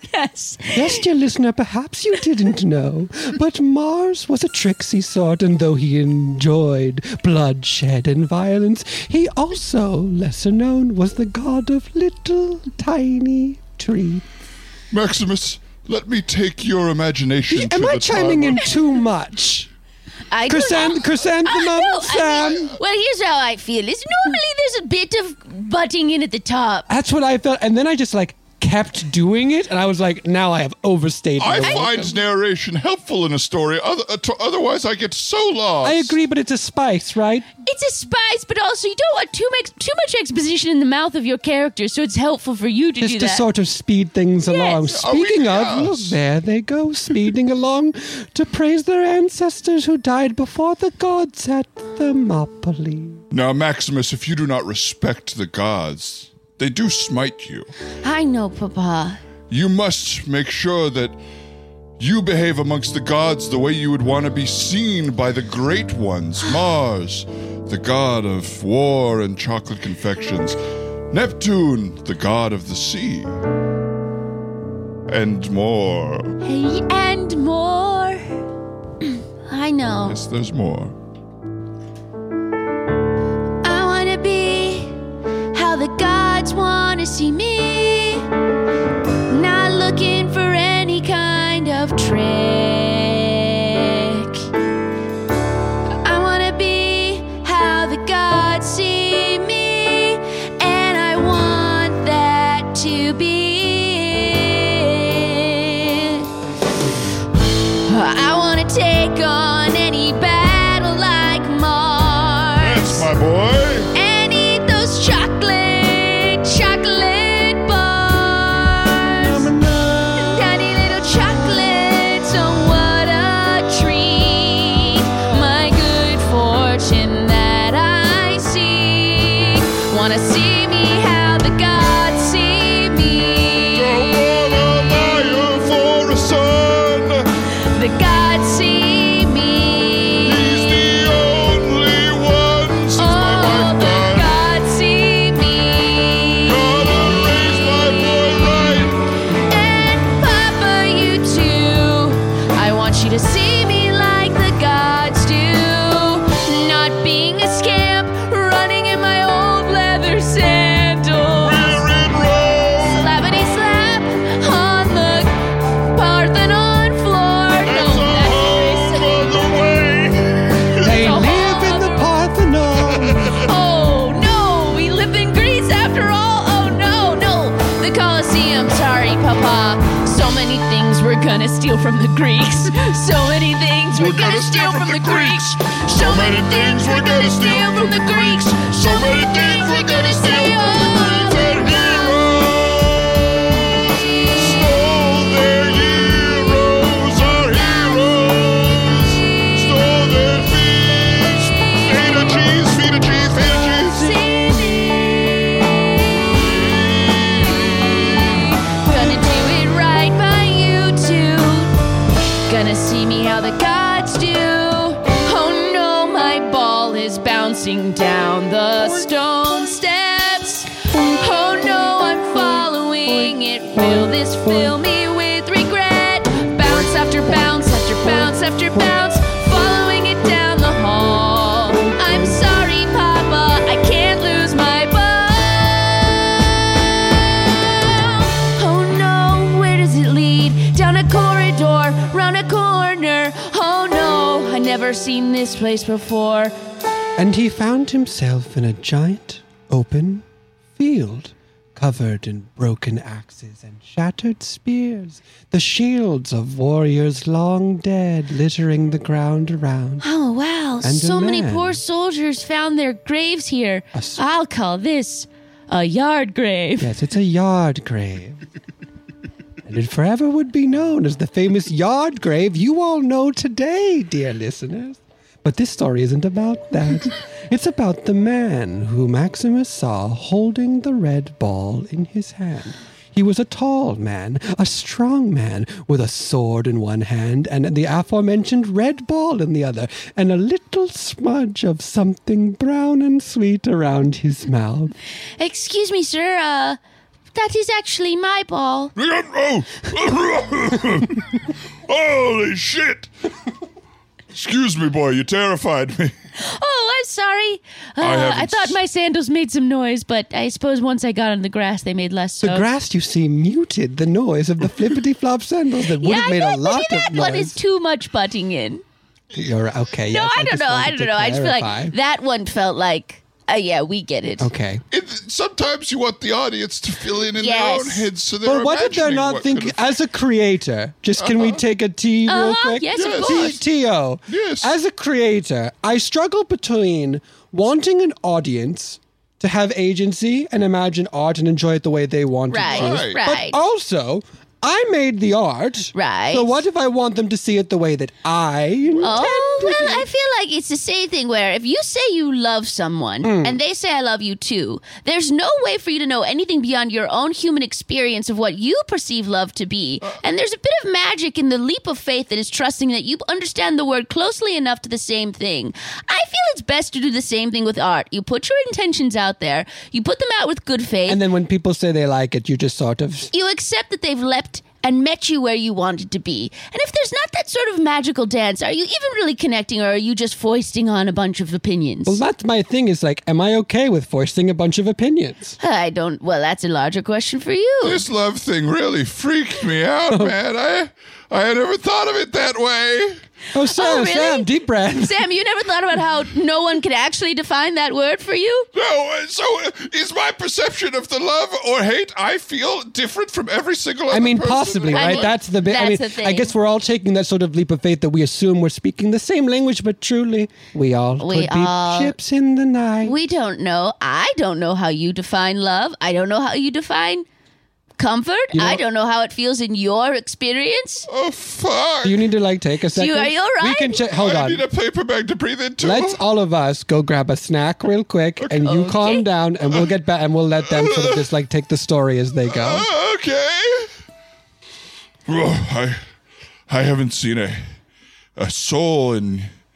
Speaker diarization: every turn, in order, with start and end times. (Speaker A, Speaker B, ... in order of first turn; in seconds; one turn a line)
Speaker A: 0.1-1.0
Speaker B: 0.7-14.2
Speaker C: 14.9-18.7
Speaker B: 17.5-19.7
Speaker A: 20.3-26.9
Speaker B: 20.5-22.7
Speaker B: 26.9-32.2
Speaker C: 31.4-36.1
Speaker A: 31.6-31.9
Speaker B: 35.8-37.5
Speaker A: 37.6-43.4
Speaker B: 43.0-53.2
Speaker A: 44.5-44.9
Speaker C: 44.9-46.2
Speaker C: 53.3-57.7
Speaker A: 58.0-59.2
Speaker C: 59.5-61.2
Speaker C: 62.0-70.6
Speaker C: 71.1-73.4
Speaker C: 75.1-76.3
Speaker A: 76.4-78.2
Speaker A: 79.0-80.2
Speaker C: 80.0-80.9
Speaker A: 83.6-84.9
Speaker A: 85.5-88.3
Speaker A: 89.3-94.4
Speaker A: 96.0-106.2
Speaker A: 107.8-113.1
Speaker C: 112.6-113.9
Speaker A: 113.9-119.5
Speaker B: 119.1-120.7
Speaker A: 120.2-134.1
Speaker C: 133.7-137.2
Speaker A: 137.7-140.7
Speaker C: 140.2-144.3
Speaker A: 143.0-148.4
Speaker C: 146.4-148.9
Speaker A: 149.4-161.7
Speaker C: 161.4-163.1
Speaker A: 162.8-165.4
Speaker A: 165.9-169.4
Speaker C: 167.6-170.8
Speaker B: 170.8-173.4
Speaker A: 170.8-172.1
Speaker A: 173.4-192.1
Speaker C: 183.9-204.2
Speaker A: 193.8-194.6
Speaker A: 201.5-202.2
Speaker A: 203.6-211.7
Speaker C: 206.5-208.3
Speaker A: 212.5-246.6
Speaker B: 223.0-224.8
Speaker B: 231.8-232.3
Speaker B: 247.2-250.2
Speaker B: 250.8-260.0
Speaker A: 260.0-266.9
Speaker B: 260.8-261.8
Speaker B: 263.9-264.2
Speaker B: 266.8-268.4
Speaker B: 269.6-294.9
Speaker A: 295.4-296.8
Speaker A: 297.3-298.9
Speaker C: 298.9-303.1
Speaker C: 304.3-306.1
Speaker A: 306.4-312.6
Speaker C: 308.0-308.8
Speaker B: 312.4-317.6
Speaker A: 316.0-318.8
Speaker B: 319.3-321.9
Speaker A: 320.1-324.5
Speaker B: 324.4-324.8
Speaker C: 324.9-329.9
Speaker A: 327.4-328.1
Speaker B: 328.4-350.1
Speaker C: 331.2-331.6
Speaker A: 332.3-333.6
Speaker C: 332.9-333.6
Speaker C: 334.3-334.7
Speaker A: 342.5-343.6
Speaker C: 342.6-343.2
Speaker A: 345.9-346.6
Speaker A: 349.0-371.2
Speaker B: 353.2-353.6
Speaker B: 371.1-373.3
Speaker A: 373.3-382.2
Speaker B: 382.1-385.6
Speaker A: 385.6-388.0
Speaker C: 387.8-393.2
Speaker B: 393.5-395.2
Speaker A: 393.7-394.5
Speaker A: 395.0-398.7
Speaker C: 398.7-405.3
Speaker B: 404.1-413.1
Speaker A: 404.9-406.5
Speaker A: 411.2-412.1
Speaker A: 413.0-417.2
Speaker A: 418.0-421.1
Speaker B: 418.5-418.8
Speaker C: 421.1-422.3
Speaker B: 422.0-424.6
Speaker A: 422.9-424.0
Speaker C: 424.1-426.2
Speaker B: 425.8-432.9
Speaker A: 428.6-429.2
Speaker C: 430.7-431.2
Speaker C: 432.5-433.9
Speaker C: 435.3-436.0
Speaker C: 436.7-437.6
Speaker C: 438.4-439.5